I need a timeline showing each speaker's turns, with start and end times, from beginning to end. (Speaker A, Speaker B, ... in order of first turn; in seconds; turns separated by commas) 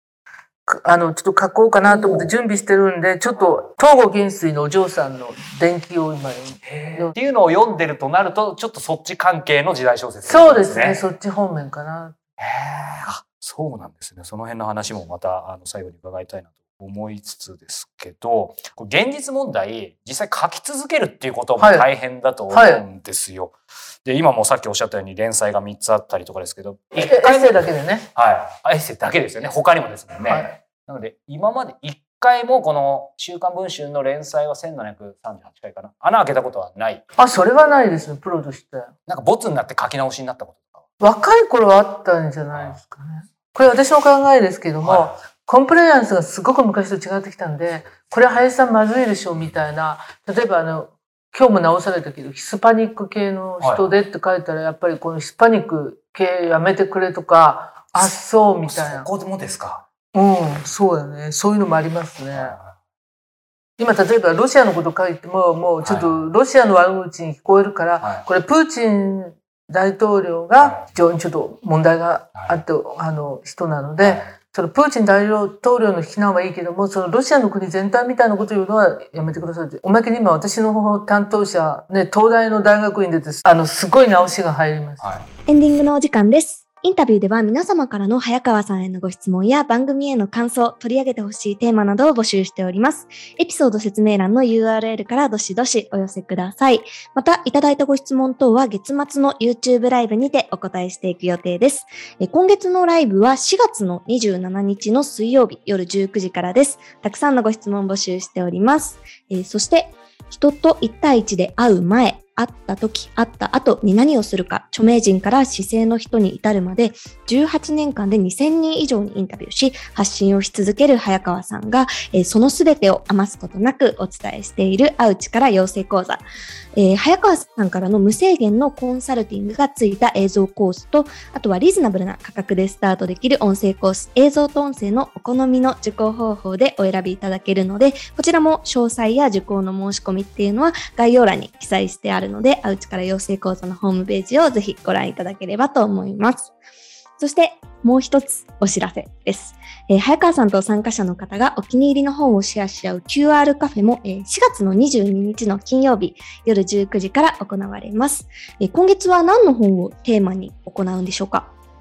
Speaker A: 0.7-7.1, Speaker B: 1.9-2.3, Speaker B: 6.6-11.0, Speaker A: 10.2-12.2, Speaker B: 12.4-27.5, Speaker A: 21.6-21.9, Speaker A: 22.5-22.8, Speaker A: 27.0-28.1, Speaker B: 28.1-37.0, Speaker A: 37.2-38.9, Speaker B: 39.1-40.8, Speaker A: 41.0-59.1, Speaker B: 42.5-42.8, Speaker B: 44.8-45.2, Speaker B: 53.6-53.9, Speaker B: 57.9-59.8, Speaker A: 60.1-62.6, Speaker B: 62.3-62.7, Speaker A: 63.8-85.1, Speaker B: 65.8-66.2, Speaker B: 72.3-72.6, Speaker B: 74.0-74.3, Speaker B: 85.0-85.2, Speaker C: 85.5-126.2, Speaker C: 126.8-146.5, Speaker C: 147.2-161.5